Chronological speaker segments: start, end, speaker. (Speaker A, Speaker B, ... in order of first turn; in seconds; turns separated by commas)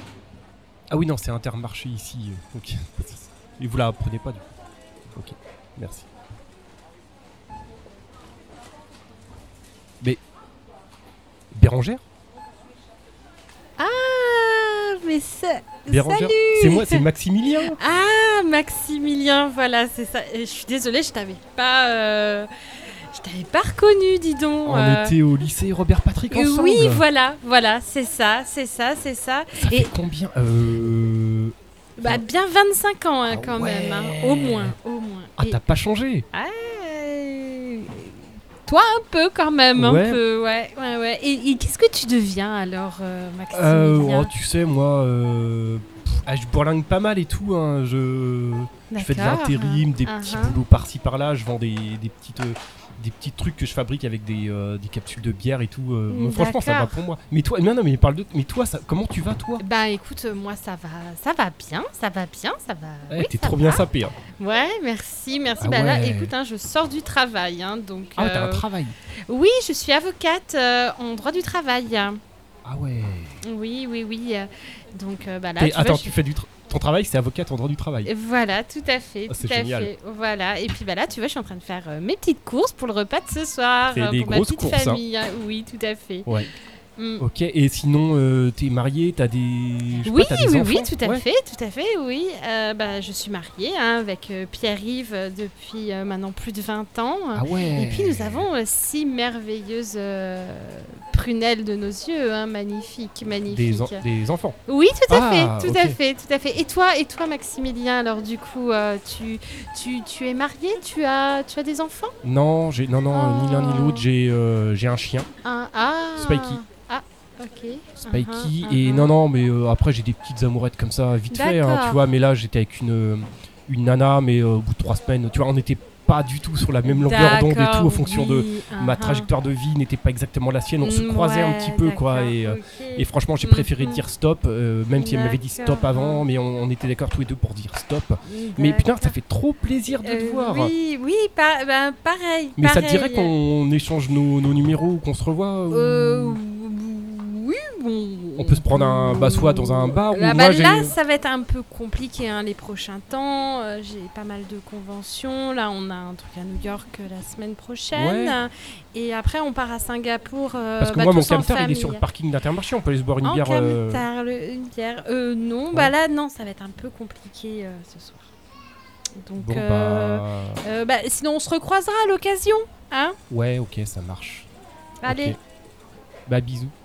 Speaker A: 0.9-4.5, Speaker A: 5.1-6.1, Speaker A: 11.5-12.0, Speaker B: 13.8-17.1, Speaker A: 15.9-17.8, Speaker B: 17.7-25.2, Speaker A: 24.6-27.0, Speaker B: 26.3-29.9, Speaker A: 29.6-32.2, Speaker B: 32.0-35.6, Speaker A: 33.3-34.7, Speaker A: 35.4-36.2, Speaker B: 36.3-44.3, Speaker A: 39.8-40.2, Speaker A: 43.5-59.6, Speaker B: 48.9-50.6, Speaker B: 56.1-57.0, Speaker B: 59.6-68.7, Speaker A: 63.1-64.2, Speaker A: 65.6-66.3, Speaker A: 68.2-69.0, Speaker B: 69.3-72.2, Speaker A: 72.7-73.4, Speaker B: 73.4-76.2, Speaker A: 75.6-78.1, Speaker B: 78.0-86.3, Speaker A: 79.3-79.9, Speaker A: 83.9-85.0, Speaker B: 87.0-87.2, Speaker A: 87.2-91.2, Speaker B: 90.0-104.0, Speaker A: 97.3-98.5, Speaker A: 103.5-104.6, Speaker B: 104.7-112.2, Speaker A: 105.1-106.0, Speaker A: 112.2-115.3, Speaker B: 113.1-114.1, Speaker B: 115.4-119.1, Speaker A: 116.2-116.6, Speaker A: 118.1-140.7, Speaker B: 121.3-122.0, Speaker B: 126.8-129.3, Speaker B: 130.8-134.0, Speaker B: 134.9-136.3, Speaker B: 138.3-139.2, Speaker B: 140.0-143.3, Speaker A: 142.6-146.4, Speaker B: 145.7-162.0, Speaker A: 148.4-151.0, Speaker A: 157.9-158.4, Speaker A: 160.8-164.1, Speaker B: 163.2-168.3, Speaker B: 169.2-173.2, Speaker A: 169.4-170.6, Speaker A: 173.3-174.5, Speaker B: 175.0-175.4, Speaker A: 175.1-175.4, Speaker A: 176.3-176.7